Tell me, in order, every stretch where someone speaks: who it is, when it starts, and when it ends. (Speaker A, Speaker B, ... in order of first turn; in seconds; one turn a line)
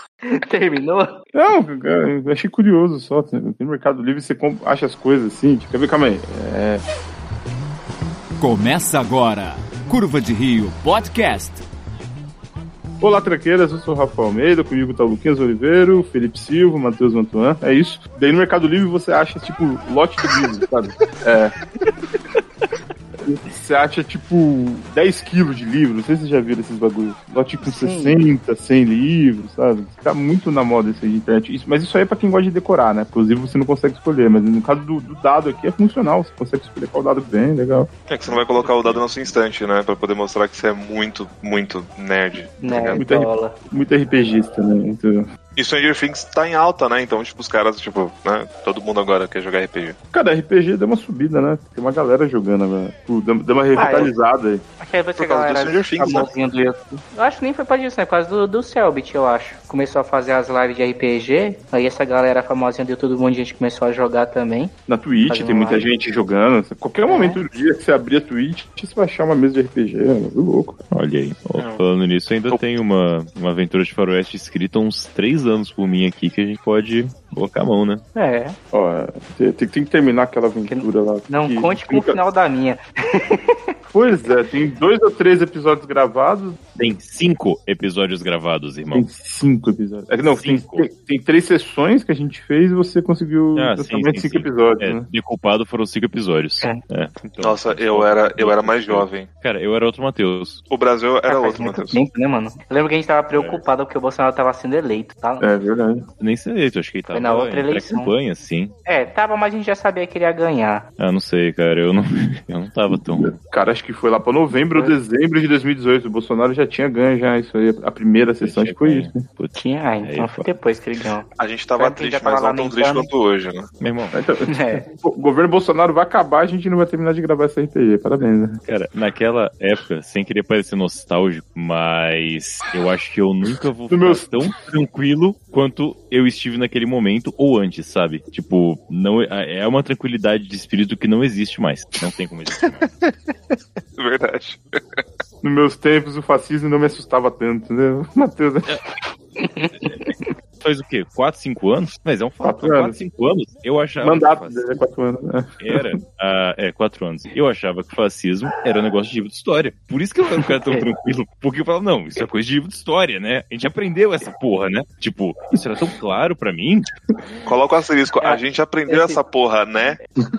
Speaker A: 0.2-1.2
Speaker B: 1.3-6.8
Speaker C: 8.4-11.6
Speaker B: 13.0-21.6
Speaker B: 23.3-37.9
Speaker A: 27.6-28.2
Speaker D: 38.1-43.0
Speaker A: 42.6-43.6
Speaker B: 43.0-45.3
Speaker D: 45.6-50.0
Speaker B: 50.1-54.6
Speaker A: 53.8-54.1
Speaker A: 54.8-64.7
Speaker D: 55.2-56.3
Speaker B: 64.9-70.8
Speaker A: 65.3-65.8
Speaker A: 67.0-67.4
Speaker E: 70.9-78.0
Speaker D: 71.6-71.8
Speaker A: 78.2-78.6
Speaker B: 78.7-82.2
Speaker A: 80.7-83.6
Speaker B: 83.9-86.6
Speaker E: 86.8-89.1
Speaker B: 88.9-95.0
Speaker E: 90.2-90.9
Speaker E: 93.5-100.6
Speaker D: 97.4-99.3
Speaker D: 100.7-102.0
Speaker A: 101.3-105.6
Speaker E: 103.3-103.6
Speaker B: 105.4-106.1
Speaker E: 106.2-108.8
Speaker A: 107.1-108.1
Speaker A: 108.9-110.9
Speaker E: 111.0-113.3
Speaker B: 113.2-119.2
Speaker E: 118.4-120.5
Speaker A: 119.5-123.1
Speaker D: 121.4-123.7
Speaker E: 123.8-124.2
Speaker B: 124.1-128.6
Speaker A: 124.5-124.9
Speaker E: 128.7-142.9
Speaker B: 133.9-134.3
Speaker D: 144.0-145.0
Speaker B: 145.4-148.7
Speaker A: 149.6-150.3
Speaker E: 150.6-154.7
Speaker B: 152.4-153.0
Speaker B: 154.0-155.8
Speaker E: 155.6-166.9
Speaker D: 167.5-170.0
Speaker A: 168.2-169.2